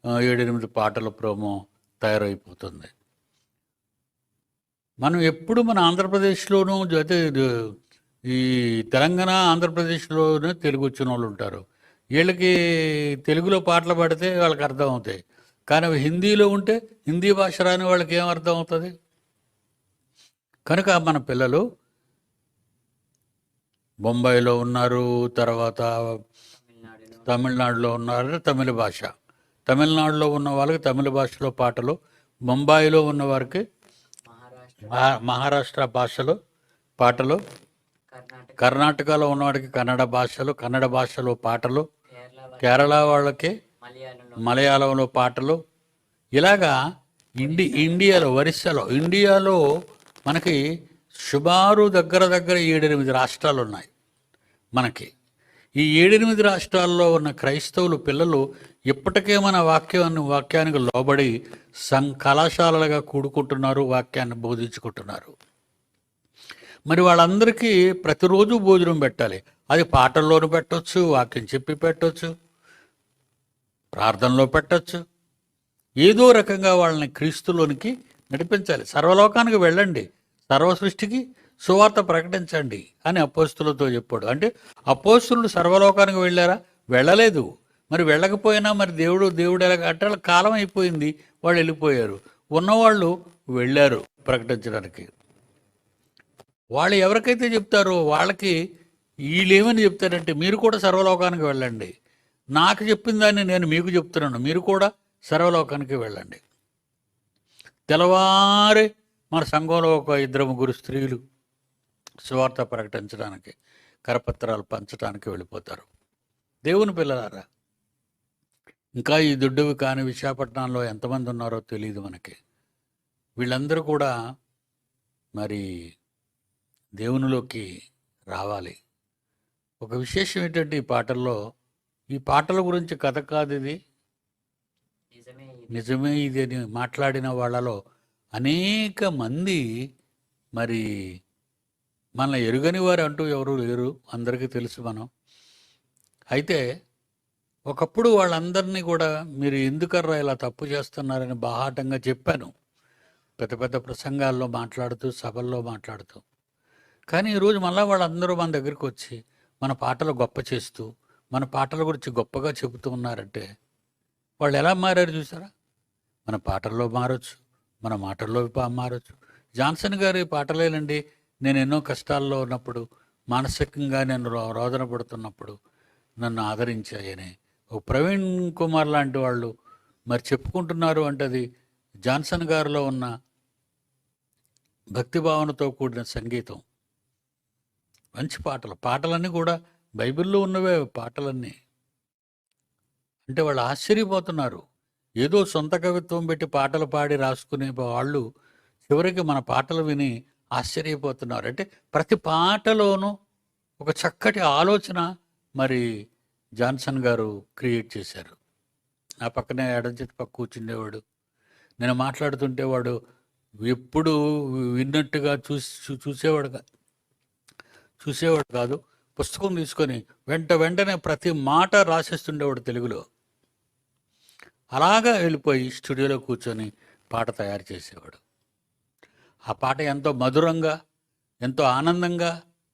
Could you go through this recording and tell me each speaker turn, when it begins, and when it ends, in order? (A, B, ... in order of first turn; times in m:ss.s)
0:00.3-0:02.9 A
0:05.0-0:07.4 A
0:08.3-0:11.6 A
0:12.2-0:12.5 A
0:13.3-0:15.2 A
0:15.7-0:18.9 A
0:20.7-0:21.6 A
0:24.1-0:25.9 A
0:26.6-0:27.4 B
0:27.3-0:29.1 A
0:29.7-0:32.0 A
0:32.5-0:33.6 A
0:34.3-0:35.2 B
0:34.9-0:36.4 A
0:37.0-0:37.4 A
0:38.1-0:38.9 B
0:38.6-0:41.9 A
0:42.1-0:43.1 B
0:42.6-0:43.5 A
0:43.8-0:44.6 B
0:44.4-0:45.6 A
0:46.4-0:46.8 A
0:47.4-0:49.6 A
0:47.4-0:48.1 B
0:50.3-0:50.6 A
0:51.3-0:53.9 A
0:54.8-0:55.1 A
0:55.8-1:01.3 A
1:01.9-1:05.3 A
1:06.9-1:12.3 A
1:14.0-1:15.0 A
1:16.0-1:35.1 A
1:36.8-1:38.6 A
1:39.3-1:41.9 A
1:42.6-1:46.4 A
1:47.9-1:51.2 A
1:52.3-1:53.6 A
1:54.1-1:55.9 A
1:56.7-1:57.4 A
1:59.0-2:02.4 A
2:03.4-2:04.1 A
2:05.4-2:05.6 A
2:07.0-2:07.7 A
2:08.3-2:08.8 A
2:09.8-2:11.4 A
2:12.2-2:13.8 A
2:15.1-2:15.8 B
2:15.7-2:17.8 A
2:18.4-2:19.6 A
2:20.6-2:20.8 A
2:22.2-2:25.1 A
2:26.4-2:26.6 A
2:27.7-2:32.5 A
2:33.4-2:36.2 A
2:37.1-2:43.4 A
2:44.4-2:45.5 A
2:46.3-2:52.8 A
2:53.3-2:55.6 A
2:56.2-2:59.5 A
3:00.1-3:01.4 A
3:02.1-3:03.1 A
3:05.0-3:06.6 A
3:08.2-3:11.5 A
3:13.3-3:14.6 A
3:15.2-3:18.2 A
3:18.9-3:23.1 A
3:23.8-3:25.1 A
3:26.6-3:28.4 A
3:29.3-3:31.0 A
3:31.8-3:32.9 A
3:33.7-3:36.6 A
3:38.0-3:43.0 A
3:44.8-3:48.2 A
3:49.5-3:50.7 A
3:51.5-3:52.3 A